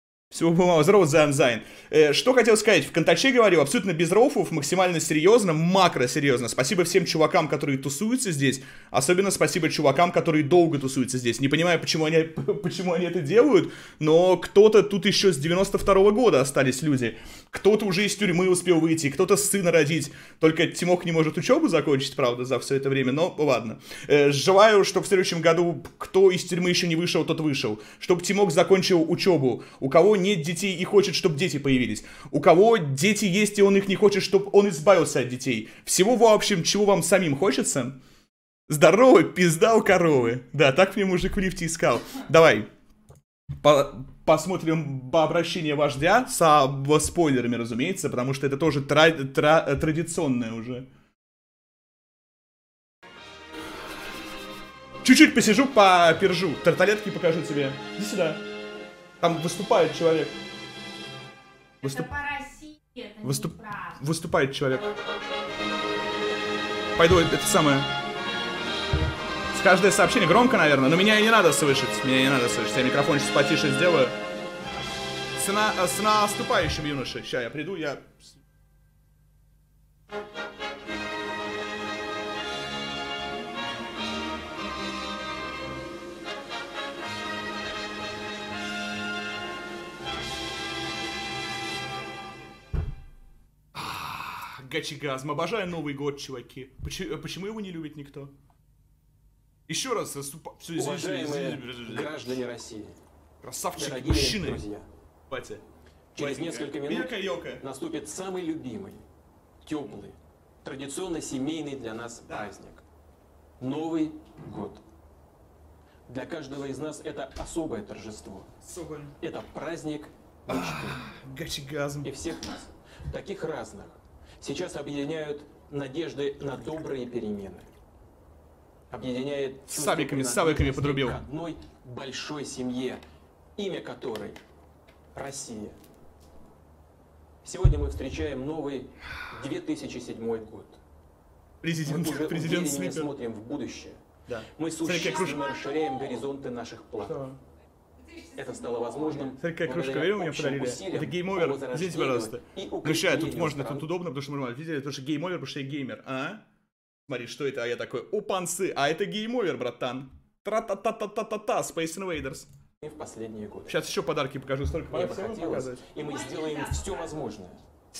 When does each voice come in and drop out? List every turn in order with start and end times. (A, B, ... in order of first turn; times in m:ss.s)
0:00.3-0:38.0 A
0:38.7-0:42.7 A
0:43.6-0:50.9 A
0:55.0-0:58.4 A
0:59.2-1:00.4 A
1:01.8-1:02.1 A
1:01.8-1:04.0 B
1:03.2-1:04.9 A
1:07.0-1:07.9 A
1:09.5-1:14.2 A
1:15.4-1:18.3 A
1:33.7-1:38.3 A
1:39.7-1:42.3 A
1:40.8-1:43.0 C
1:43.4-1:44.6 A
1:43.8-1:44.9 C
1:45.3-1:45.6 A
1:46.2-1:49.0 C
1:46.2-1:47.6 A
1:49.6-1:52.8 C
1:53.6-1:54.8 C
1:56.1-1:58.5 C
1:58.6-1:59.1 A
1:59.2-2:01.1 C
2:00.5-2:02.6 A
2:02.0-2:07.7 C
2:06.5-2:06.8 A
2:08.9-2:13.0 C
2:09.7-2:11.2 A
2:13.6-2:14.4 C
2:15.1-2:15.8 C
2:17.4-2:20.8 C
2:21.6-2:23.1 A
2:21.8-2:27.2 C
2:24.3-2:25.4 A
2:24.9-2:26.2 B
2:27.0-2:27.4 A
2:28.0-2:29.4 B
2:28.4-2:33.9 C
2:29.4-2:36.4 A
2:37.1-2:42.5 A
2:42.8-2:43.8 C
2:43.7-2:45.8 A
2:44.9-2:47.6 C
2:46.0-2:47.1 B